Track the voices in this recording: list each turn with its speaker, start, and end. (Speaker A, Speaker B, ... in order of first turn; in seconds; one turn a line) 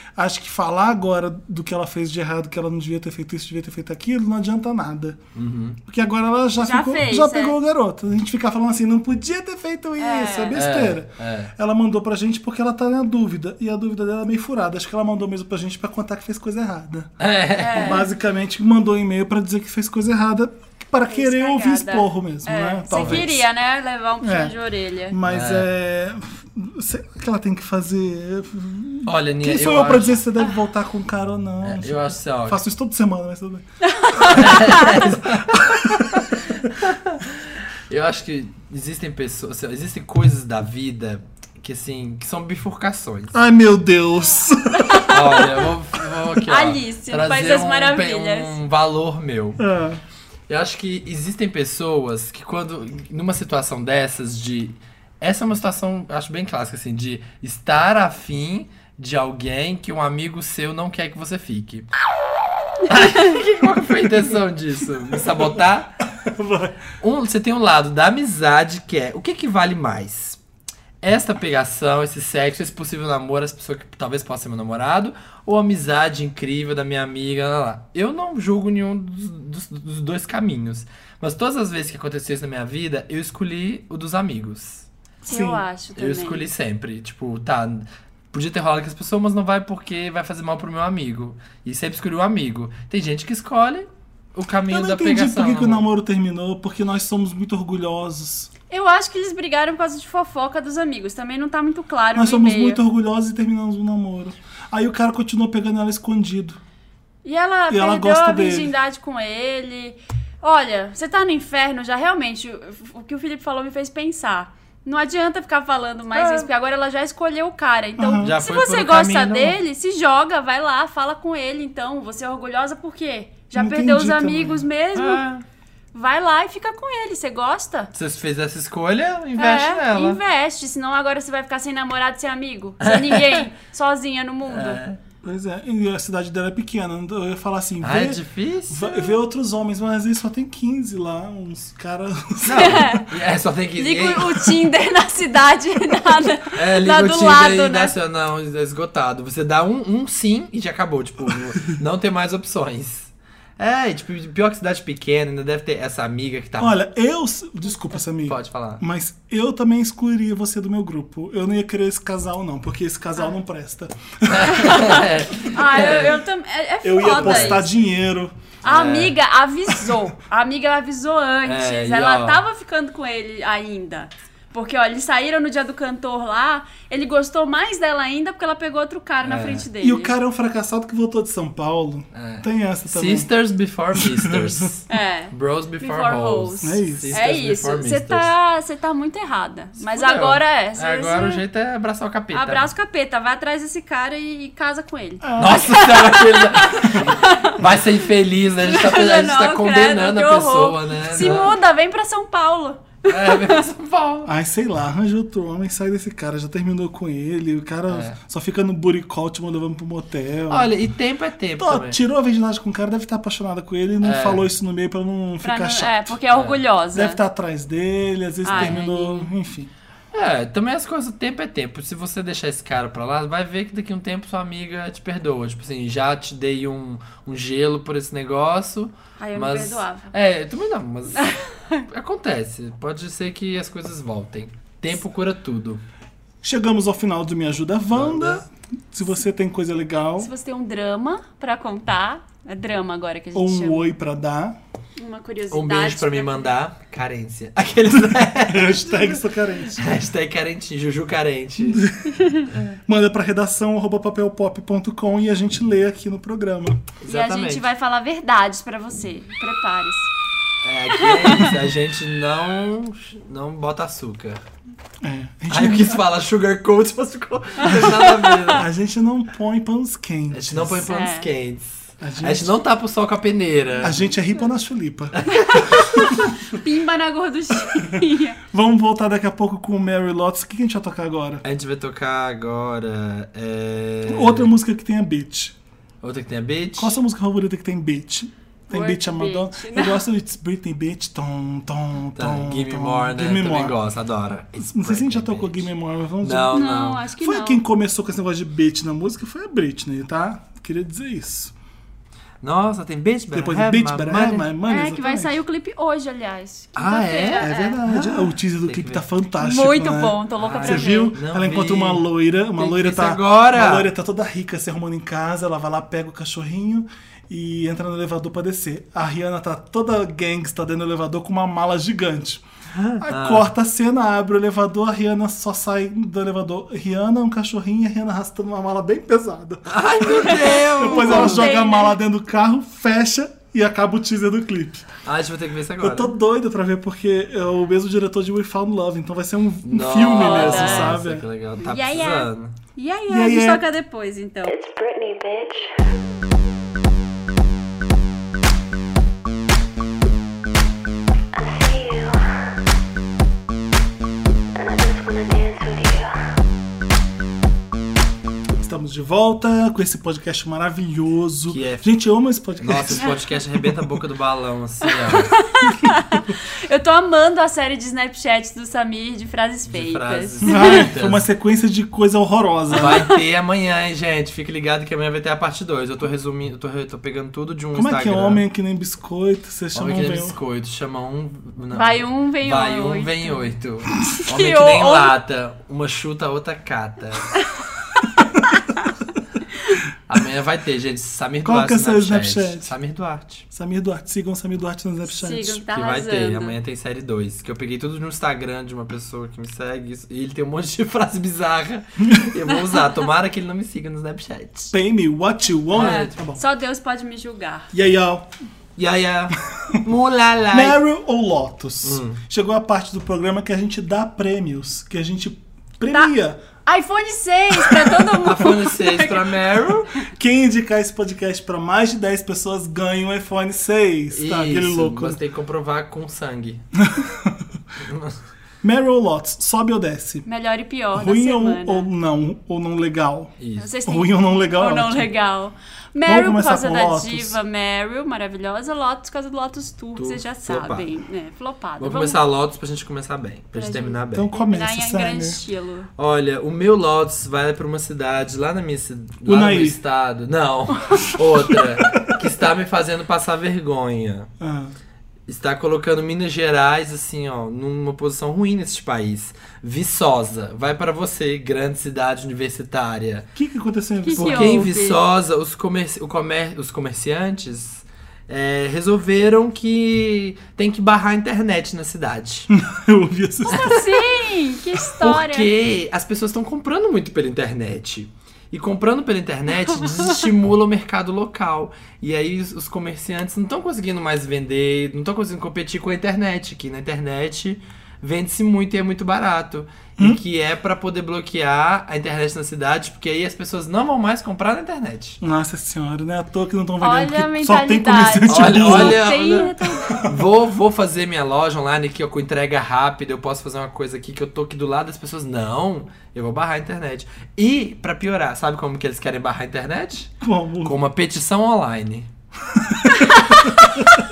Speaker A: 0.1-5.2
Speaker B: 5.3-5.8
Speaker A: 5.9-17.1
Speaker C: 6.6-7.5
Speaker C: 10.0-10.5
Speaker B: 10.5-11.5
Speaker B: 17.2-18.1
Speaker C: 17.6-18.1
Speaker A: 17.7-23.4
Speaker C: 21.1-25.2
Speaker B: 23.0-23.2
Speaker A: 24.2-24.5
Speaker A: 25.1-33.6
Speaker B: 25.2-25.7
Speaker B: 29.1-30.2
Speaker B: 31.6-32.6
Speaker C: 33.8-35.0
Speaker B: 34.3-43.3
Speaker A: 35.5-36.2
Speaker A: 43.3-45.0
Speaker C: 44.8-45.6
Speaker B: 45.1-49.6
Speaker C: 46.5-48.6
Speaker A: 49.6-50.0
Speaker B: 50.5-61.9
Speaker B: 62.9-66.0
Speaker A: 65.2-65.4
Speaker A: 66.1-66.8
Speaker B: 67.0-70.4
Speaker B: 71.0-84.8
Speaker A: 85.2-85.6
Speaker C: 85.2-86.5
Speaker B: 86.0-95.8
Speaker A: 94.7-98.5
Speaker C: 98.7-102.8
Speaker A: 102.1-106.6
Speaker C: 107.2-125.2
Speaker A: 107.7-108.7
Speaker B: 116.1-116.5
Speaker A: 118.0-118.3
Speaker B: 118.2-119.6
Speaker A: 123.5-124.6
Speaker B: 124.9-125.4
Speaker C: 125.9-127.9
Speaker B: 127.9-130.2
Speaker C: 129.4-134.8
Speaker B: 132.8-133.5
Speaker B: 134.5-135.0
Speaker A: 135.2-143.0
Speaker B: 137.8-138.9
Speaker B: 142.4-144.5
Speaker C: 142.5-143.1
Speaker C: 143.8-147.9
Speaker B: 146.5-156.8
Speaker A: 156.6-164.9
Speaker B: 158.2-158.8
Speaker B: 164.3-166.2
Speaker C: 164.5-167.7
Speaker A: 166.8-168.3
Speaker B: 167.0-167.6
Speaker B: 168.6-169.2
Speaker C: 168.6-180.2
Speaker B: 171.4-172.4
Speaker B: 179.2-179.7
Speaker A: 179.8-183.3
Speaker B: 182.1-188.3
Speaker A: 183.9-184.6
Speaker C: 184.9-191.4
Speaker A: 186.6-187.2
Speaker B: 189.8-192.7
Speaker C: 192.3-197.6
Speaker A: 195.2-195.8
Speaker B: 195.4-201.6
Speaker C: 198.6-203.6
Speaker B: 203.1-204.3
Speaker A: 204.2-210.7
Speaker B: 207.9-208.2
Speaker B: 210.5-212.0
Speaker A: 211.6-216.2
Speaker B: 214.0-214.4
Speaker C: 215.4-217.2
Speaker B: 216.3-216.6
Speaker A: 216.9-219.7
Speaker C: 218.4-219.3
Speaker B: 218.5-218.8
Speaker B: 220.1-235.8
Speaker C: 229.2-230.1
Speaker C: 231.2-231.8
Speaker A: 236.4-240.3
Speaker B: 237.9-238.4
Speaker C: 240.2-243.9
Speaker A: 243.3-244.6
Speaker C: 245.0-246.5
Speaker B: 245.5-249.2
Speaker A: 248.0-249.9
Speaker B: 249.8-251.8
Speaker A: 251.6-252.2
Speaker A: 252.8-256.9
Speaker B: 257.0-257.6
Speaker C: 257.0-260.1
Speaker B: 260.6-264.4
Speaker C: 261.0-261.5
Speaker A: 265.0-266.0
Speaker B: 265.5-268.6
Speaker C: 267.7-268.5
Speaker A: 268.5-270.9
Speaker B: 270.3-274.1
Speaker C: 270.8-271.3
Speaker A: 272.0-272.5
Speaker A: 273.8-275.2
Speaker B: 275.2-276.2
Speaker C: 275.3-278.4
Speaker A: 278.5-281.4
Speaker B: 281.4-284.5
Speaker A: 284.1-285.5
Speaker B: 286.0-287.0
Speaker A: 286.8-293.8
Speaker C: 288.7-290.0
Speaker B: 292.1-295.7
Speaker A: 294.6-301.5
Speaker B: 296.2-297.0
Speaker C: 296.5-297.6
Speaker B: 302.4-304.5
Speaker A: 303.3-305.4
Speaker C: 304.7-307.8
Speaker B: 306.8-309.0
Speaker A: 307.4-322.4
Speaker C: 309.4-311.1
Speaker B: 310.4-312.0
Speaker B: 312.6-313.9
Speaker B: 322.7-323.5
Speaker A: 323.0-335.0
Speaker B: 329.7-331.5
Speaker C: 330.2-332.0
Speaker B: 335.0-336.1
Speaker A: 335.8-341.2
Speaker B: 339.6-342.5
Speaker C: 340.2-340.9
Speaker C: 341.6-344.5
Speaker A: 343.1-343.6
Speaker D: 344.4-345.9
Speaker D: 351.3-352.5
Speaker D: 354.6-356.3
Speaker A: 358.6-363.1
Speaker B: 361.5-361.9
Speaker B: 362.6-365.3
Speaker C: 364.9-370.8
Speaker B: 369.7-371.2
Speaker A: 370.4-373.1
Speaker B: 372.7-378.4
Speaker A: 377.7-380.4
Speaker B: 379.7-387.3
Speaker C: 381.7-383.4
Speaker C: 384.2-385.1
Speaker B: 390.1-393.4
Speaker A: 391.4-392.7
Speaker A: 393.5-395.6
Speaker C: 395.1-396.6
Speaker B: 395.7-404.7
Speaker A: 402.0-402.3
Speaker A: 404.7-406.4
Speaker B: 405.7-406.1
Speaker C: 405.8-407.7
Speaker A: 407.7-408.3
Speaker B: 408.8-410.8
Speaker A: 410.5-416.4
Speaker B: 411.8-412.2
Speaker C: 416.6-419.5
Speaker A: 417.5-418.0
Speaker B: 418.2-419.9
Speaker A: 420.1-425.2
Speaker B: 424.1-426.6
Speaker A: 426.8-427.4
Speaker B: 427.8-428.1
Speaker A: 428.6-430.2
Speaker C: 430.2-431.9
Speaker A: 430.9-433.3
Speaker B: 433.4-433.7
Speaker C: 433.6-442.2
Speaker A: 433.9-435.1
Speaker A: 436.1-437.4
Speaker B: 439.9-440.9
Speaker B: 441.8-444.3
Speaker C: 443.5-445.9
Speaker A: 444.1-445.4
Speaker B: 446.0-454.3
Speaker A: 449.2-449.8
Speaker A: 451.6-452.2
Speaker A: 454.4-454.7
Speaker B: 455.3-463.3
Speaker A: 463.4-464.7
Speaker C: 464.0-465.0
Speaker B: 464.1-472.5
Speaker A: 472.5-473.8
Speaker C: 473.5-475.5
Speaker B: 473.5-473.8
Speaker B: 474.9-495.2
Speaker A: 495.2-500.2
Speaker C: 496.8-500.0
Speaker B: 498.3-512.1
Speaker A: 510.2-510.8
Speaker A: 512.5-513.8
Speaker C: 513.0-513.5